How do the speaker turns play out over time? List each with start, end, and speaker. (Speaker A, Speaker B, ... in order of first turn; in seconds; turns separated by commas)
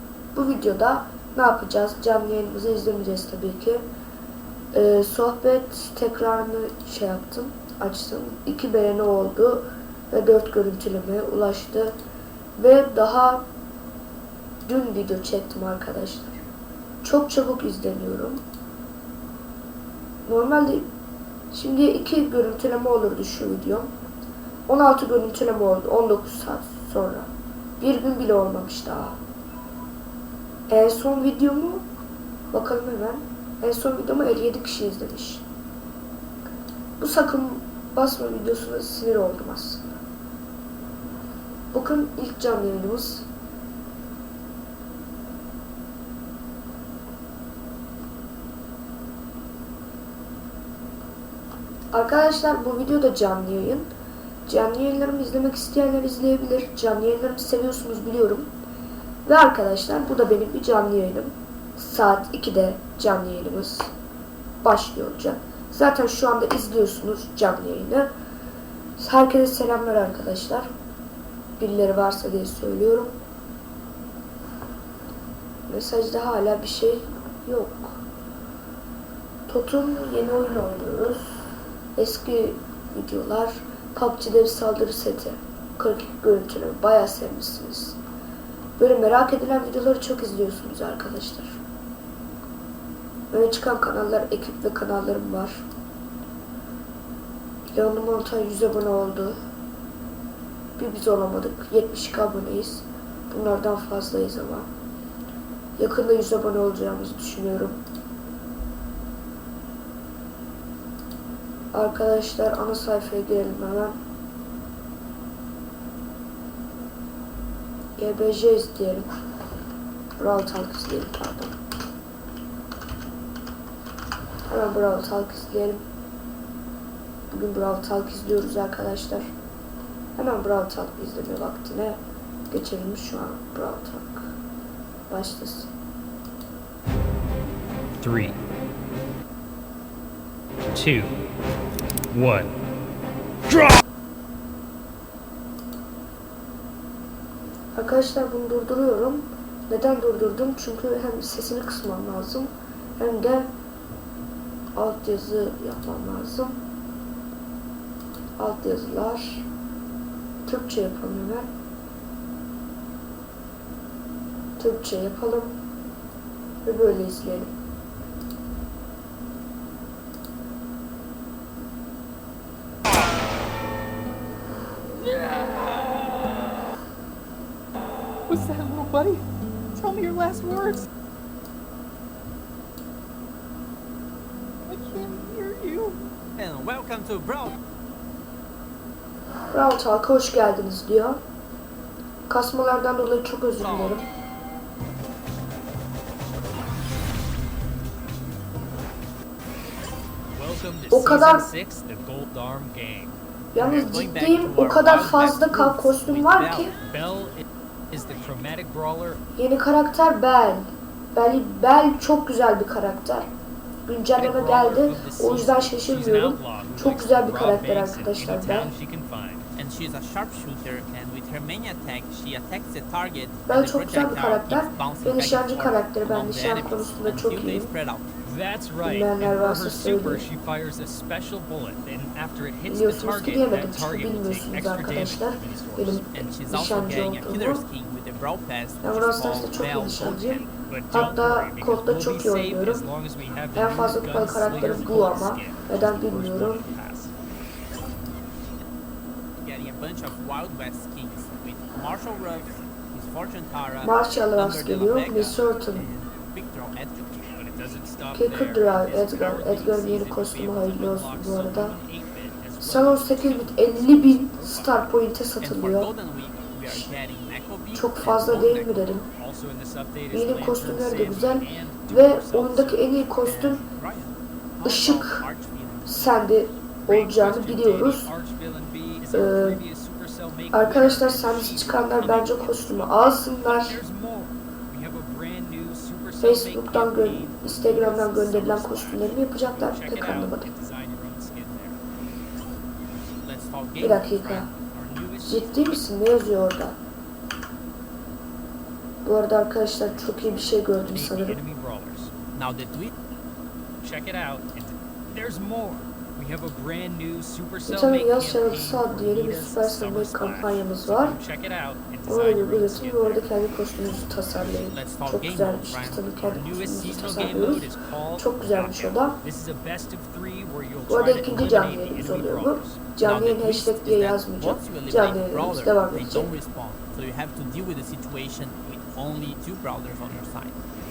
Speaker A: 0.3-3.8, Speaker A: 4.7-12.0, Speaker A: 12.6-13.4, Speaker A: 14.7-16.4, Speaker A: 17.0-18.4, Speaker A: 20.3-20.9, Speaker A: 21.5-23.9, Speaker A: 24.7-29.2, Speaker A: 30.7-31.8, Speaker A: 32.5-35.5, Speaker A: 37.0-40.0, Speaker A: 41.7-43.3, Speaker A: 51.9-53.9, Speaker A: 54.5-58.5, Speaker A: 59.3-63.9, Speaker A: 64.6-68.1, Speaker A: 69.0-70.7, Speaker A: 71.6-73.1, Speaker A: 75.7-78.0, Speaker A: 79.5-81.3, Speaker A: 82.0-88.0, Speaker A: 88.8-91.6, Speaker A: 93.3-95.6, Speaker A: 97.7-99.4, Speaker A: 100.8-104.7, Speaker A: 105.8-107.8, Speaker A: 111.7-114.0, Speaker A: 118.0-119.1, Speaker A: 120.2-121.5, Speaker A: 124.5-125.8, Speaker A: 127.3-129.3, Speaker A: 130.2-134.3, Speaker A: 135.1-135.7, Speaker B: 138.0-138.4, Speaker B: 140.7-141.1, Speaker B: 142.1-142.5, Speaker B: 143.5-143.8, Speaker A: 147.8-153.5, Speaker A: 154.8-156.6, Speaker A: 158.4-159.4, Speaker A: 160.5-161.5, Speaker A: 164.6-165.5, Speaker A: 166.7-167.5, Speaker C: 175.0-176.5, Speaker C: 178.3-180.9, Speaker C: 184.7-186.0, Speaker D: 186.4-187.6, Speaker A: 189.5-191.2, Speaker A: 192.3-194.1, Speaker D: 193.6-194.1, Speaker B: 200.3-203.2, Speaker A: 200.9-201.5, Speaker A: 203.5-206.7, Speaker D: 203.6-206.8, Speaker B: 206.8-209.2, Speaker A: 209.4-213.3, Speaker A: 213.9-218.7, Speaker B: 214.2-219.5, Speaker D: 219.6-228.1, Speaker A: 223.5-227.7, Speaker B: 228.2-236.1, Speaker A: 228.8-230.3, Speaker A: 232.7-237.7, Speaker D: 236.1-240.5, Speaker A: 238.8-242.9, Speaker B: 240.2-247.2, Speaker A: 243.5-246.6, Speaker D: 249.4-257.3, Speaker A: 253.8-255.9, Speaker B: 257.3-264.8, Speaker A: 258.1-261.8, Speaker A: 262.6-265.9, Speaker D: 265.4-269.0, Speaker A: 267.7-269.1, Speaker B: 269.2-273.1, Speaker A: 270.1-273.6, Speaker D: 273.2-276.3, Speaker A: 274.6-275.2, Speaker A: 275.9-278.1, Speaker B: 276.8-291.8, Speaker A: 279.1-279.6, Speaker A: 280.5-283.8, Speaker A: 286.2-290.5, Speaker D: 293.2-294.5, Speaker A: 293.8-294.5, Speaker B: 294.5-295.9, Speaker A: 295.2-296.8, Speaker A: 299.0-301.4, Speaker B: 300.3-302.1, Speaker D: 302.3-302.9, Speaker B: 303.8-313.2, Speaker A: 307.7-311.2, Speaker A: 312.1-319.2, Speaker D: 314.7-316.4, Speaker B: 316.3-322.9, Speaker A: 320.9-326.4, Speaker D: 323.0-330.6